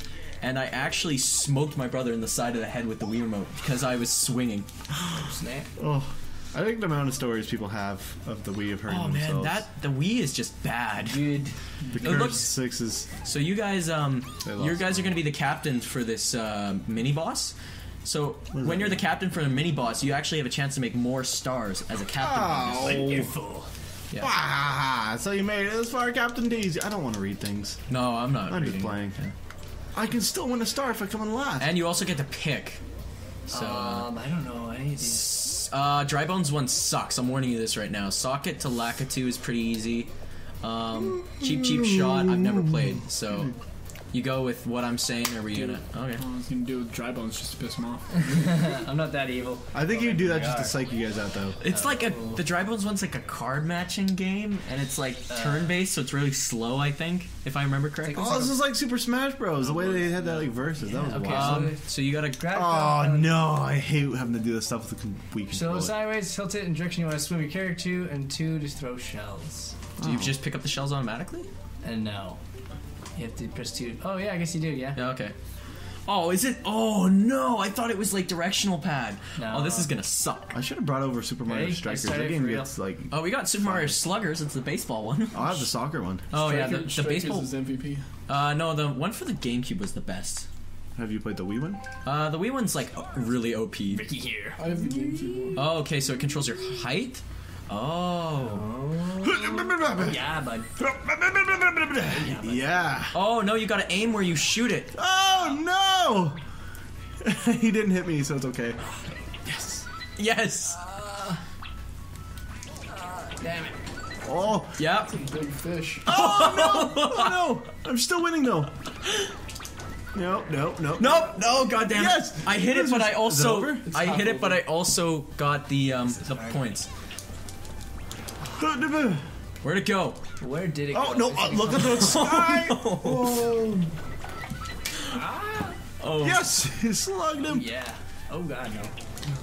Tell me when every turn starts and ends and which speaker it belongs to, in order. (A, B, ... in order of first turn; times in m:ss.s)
0:00.4-0:04.7 A
0:05.2-0:05.7 B
0:05.8-0:09.6 C
0:08.9-0:11.3 A
0:11.0-0:12.2 B
0:11.9-0:13.1 C
0:12.0-0:12.5 A
0:13.2-0:23.0 A
0:14.4-0:15.2 C
0:18.5-0:19.1 C
0:22.2-0:23.3 C
0:22.8-0:23.7 B
0:24.2-0:27.8 C
0:27.9-0:29.3 A
0:28.5-0:29.2 C
0:29.9-0:31.7 C
0:31.6-0:32.8 A
0:33.5-0:34.1 A
0:33.5-0:35.4 B
0:35.0-0:40.1 A
0:40.6-0:43.5 A
0:41.1-0:43.0 C
0:44.1-0:46.2 A
0:45.5-0:48.3 D
0:48.1-0:50.8 B
0:49.7-0:51.6 C
0:51.6-0:58.4 A
0:51.7-0:52.4 B
0:55.3-0:55.8 B
0:58.0-0:58.6 B
0:58.2-1:01.7 C
0:59.6-1:03.4 B
1:01.2-1:02.4 A
1:02.5-1:05.9 C
1:05.5-1:09.8 B
1:10.0-1:10.4 C
1:10.0-1:11.5 A
1:11.8-1:12.4 B
1:13.2-1:15.0 B
1:14.9-1:15.3 A
1:16.0-1:20.5 A
1:19.4-1:19.9 B
1:20.5-1:24.0 C
1:21.4-1:22.7 B
1:23.1-1:25.6 A
1:25.3-1:26.3 C
1:26.3-1:27.5 A
1:26.3-1:28.0 D
1:28.3-1:30.5 A
1:31.0-1:31.8 C
1:32.0-1:34.0 A
1:33.9-1:35.6 B
1:34.6-1:35.6 D
1:35.5-1:38.6 A
1:38.4-1:40.7 B
1:39.2-1:40.2 C
1:40.8-1:43.2 C
1:42.0-1:42.8 B
1:43.1-1:44.9 A
1:44.9-1:46.4 C
1:47.2-1:48.8 C
1:49.4-1:49.8 B
1:50.2-1:50.8 A
1:50.8-1:51.4 B
1:53.0-1:53.7 B
1:54.2-1:54.8 C
1:54.8-1:55.1 A
1:55.1-1:56.0 D
1:56.0-1:58.7 C
1:56.1-1:57.4 A
1:59.0-1:59.3 A
2:00.1-2:04.0 C
2:01.0-2:06.9 A
2:03.9-2:04.6 D
2:06.0-2:06.7 B
2:08.6-2:09.2 C
2:09.6-2:10.2 A
2:10.4-2:12.2 B
2:10.9-2:13.9 C
2:11.8-2:13.4 A
2:15.1-2:15.8 B
2:16.0-2:16.5 A
2:16.2-2:17.6 C
2:17.4-2:18.9 B